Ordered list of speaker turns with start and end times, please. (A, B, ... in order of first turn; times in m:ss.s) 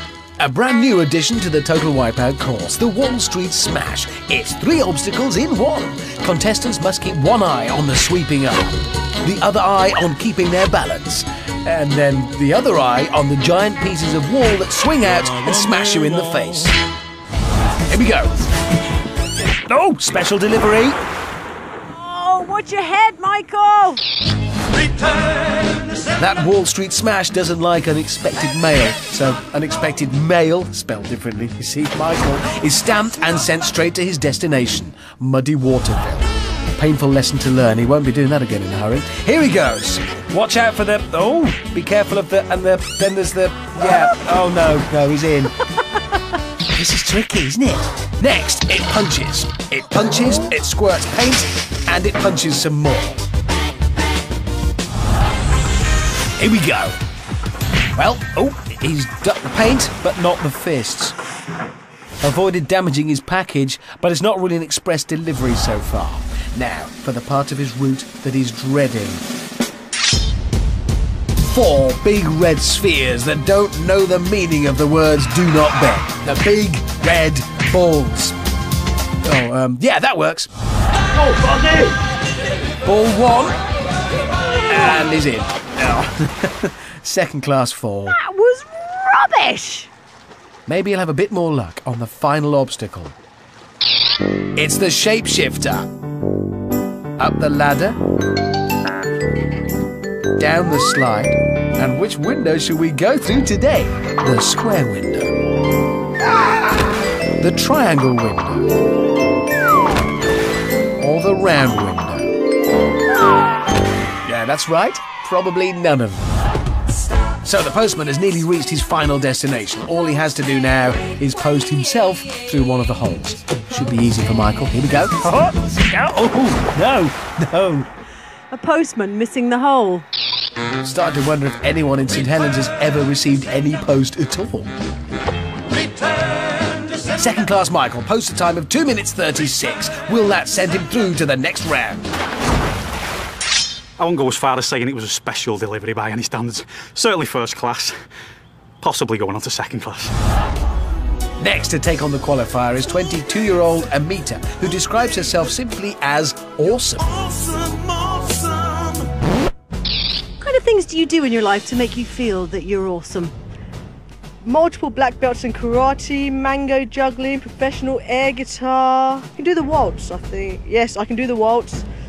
0:00.4-0:16.8 A
0:17.9-0:18.4 A
0:19.7-0:21.0 A
0:22.0-0:24.0 B
0:26.2-0:45.5 A
0:46.7-0:53.2 A
0:56.4-0:57.0 A
0:58.0-1:01.2 A
1:02.2-1:09.2 A
1:11.5-1:18.4 A
1:19.2-1:20.5 A
1:22.8-1:23.6 A
1:24.7-1:28.2 A
1:28.1-1:29.9 B
1:30.7-1:33.2 A
1:34.6-1:35.9 A
1:37.2-1:38.0 A
1:40.4-1:45.3 A
1:46.2-1:46.8 A
1:47.4-1:48.7 A
1:51.0-1:52.3 A
1:54.3-1:56.4 A
1:57.4-2:07.9 A
2:08.5-2:10.1 B
2:10.8-2:14.7 A
2:17.1-2:22.1 A
2:24.0-2:28.0 C
2:28.8-2:30.1 C
2:31.4-2:37.1 A
2:40.4-2:43.3 B
2:44.4-2:51.8 D